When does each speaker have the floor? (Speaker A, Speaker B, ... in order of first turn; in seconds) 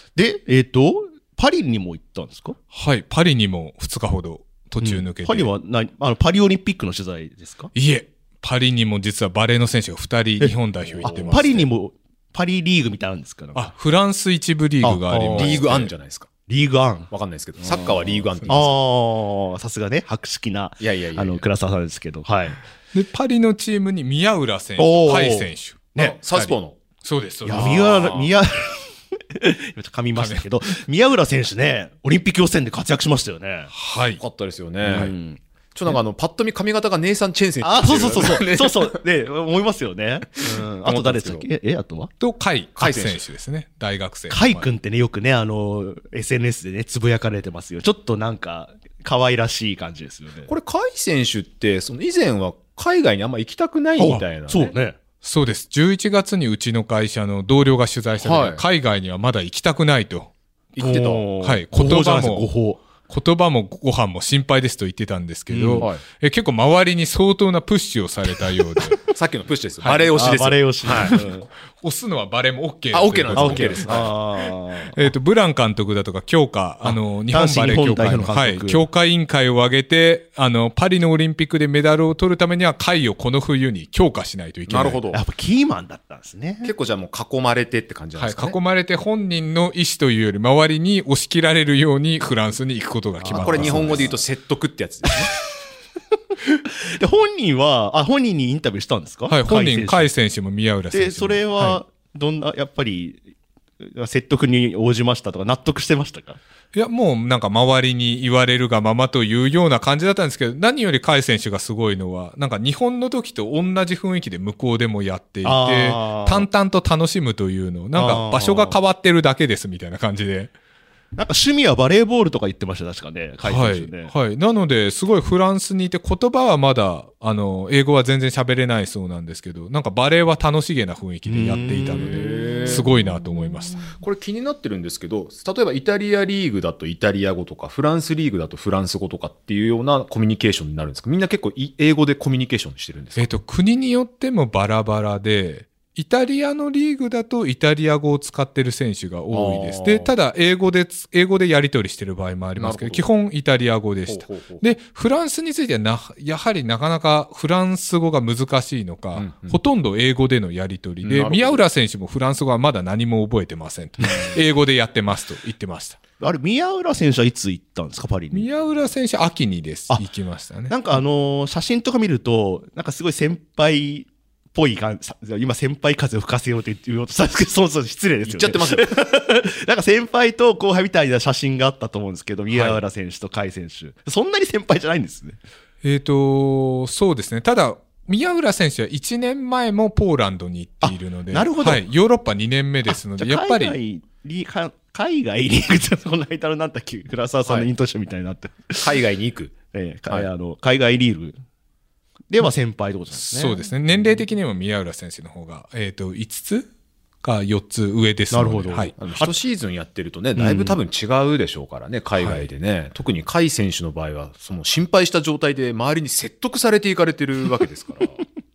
Speaker A: 0.1-2.6, 4.8-7.7, 11.0-13.7, 14.8-15.9, 16.5-17.1, 18.5-22.6, 24.8-26.1, 27.4-33.7, 34.8-35.4, 37.6-42.1, 44.3-50.5, 54.0-55.0, 60.8-62.8, 65.5-65.9, 70.1-71.5, 73.3-75.0, 76.8-78.9, 85.1-86.7, 93.2-94.2, 96.4-100.1, 100.9-103.2, 103.8-106.4, 115.4-116.5, 118.0-118.8, 121.2-124.1, 131.2-132.7, 166.2-168.5, 170.7-185.4, 190.8-191.8, 192.9-198.9, 199.7-201.4, 202.3-203.5, 208.3-209.3, 210.4-210.8
Speaker B: 2.7-5.5, 7.7-11.7, 13.6-15.9, 22.9-28.3, 30.1-30.5, 33.7-34.2, 42.2-44.6, 55.2-60.3, 61.4-62.5, 63.0-69.0, 69.8-70.1, 70.9-74.1, 74.9-85.0, 88.2-94.1, 99.3-101.8, 106.7-120.5, 123.4-133.9, 143.2-166.0, 168.3-171.0, 182.5-182.8, 185.8-193.8, 203.2-206.7, 207.2-208.9, 212.2-212.4
Speaker C: 10.9-11.4, 15.4-16.3, 17.1-18.8, 20.8-21.4, 26.0-26.8, 34.2-35.1, 35.7-39.0, 40.6-41.5, 42.8-43.2, 50.5-54.7, 58.2-58.6, 60.8-61.2, 69.1-71.2, 72.9-74.1, 84.7-85.2, 86.6-88.6, 93.3-95.3, 132.1-132.9, 133.9-143.3, 149.3-150.1, 152.6-153.1, 154.1-154.6, 159.1-159.6, 161.0-161.6, 178.2-178.9, 198.8-199.5, 209.0-218.2